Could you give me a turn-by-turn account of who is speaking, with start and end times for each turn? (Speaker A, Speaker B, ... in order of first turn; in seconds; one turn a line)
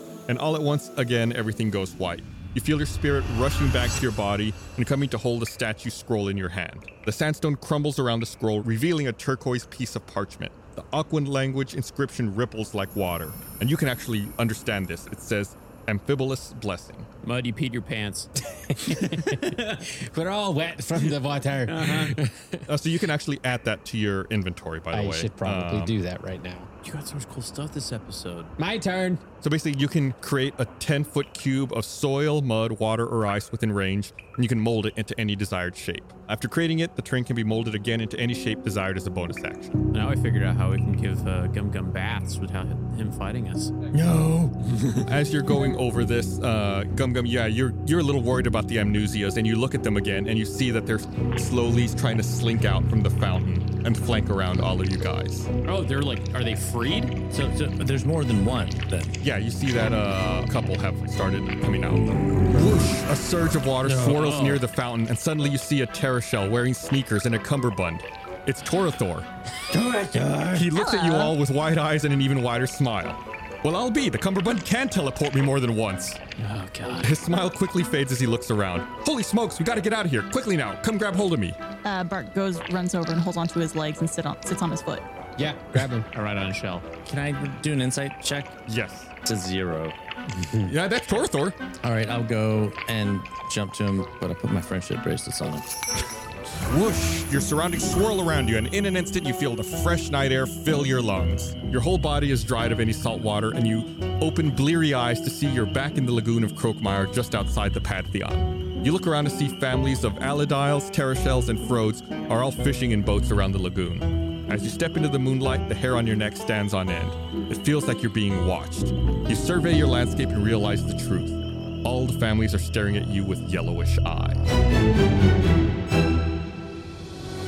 Speaker A: 0.3-17.1
Speaker B: 17.2-18.3
Speaker C: 18.4-22.7
Speaker B: 18.8-19.8
Speaker B: 21.7-22.2
Speaker A: 22.7-25.9
Speaker C: 24.9-26.7
Speaker B: 26.8-28.5
Speaker C: 28.6-29.2
Speaker A: 29.4-39.8
Speaker B: 39.9-43.8
Speaker D: 43.9-44.5
Speaker B: 44.6-45.1
Speaker A: 45.0-55.5
Speaker B: 55.6-57.1
Speaker D: 57.3-59.2
Speaker A: 59.2-69.3
Speaker D: 63.8-64.2
Speaker B: 64.1-64.6
Speaker D: 69.7-70.7
Speaker A: 70.5-76.2
Speaker E: 70.8-71.4
Speaker B: 76.4-77.1
Speaker A: 77.0-81.6
Speaker E: 81.8-85.0
Speaker C: 85.4-86.1
Speaker B: 86.1-86.9
Speaker D: 87.0-88.6
Speaker A: 88.7-89.1
Speaker D: 89.3-90.0
Speaker C: 90.3-90.7
Speaker A: 90.7-91.6
Speaker D: 91.8-95.7
Speaker A: 96.7-124.4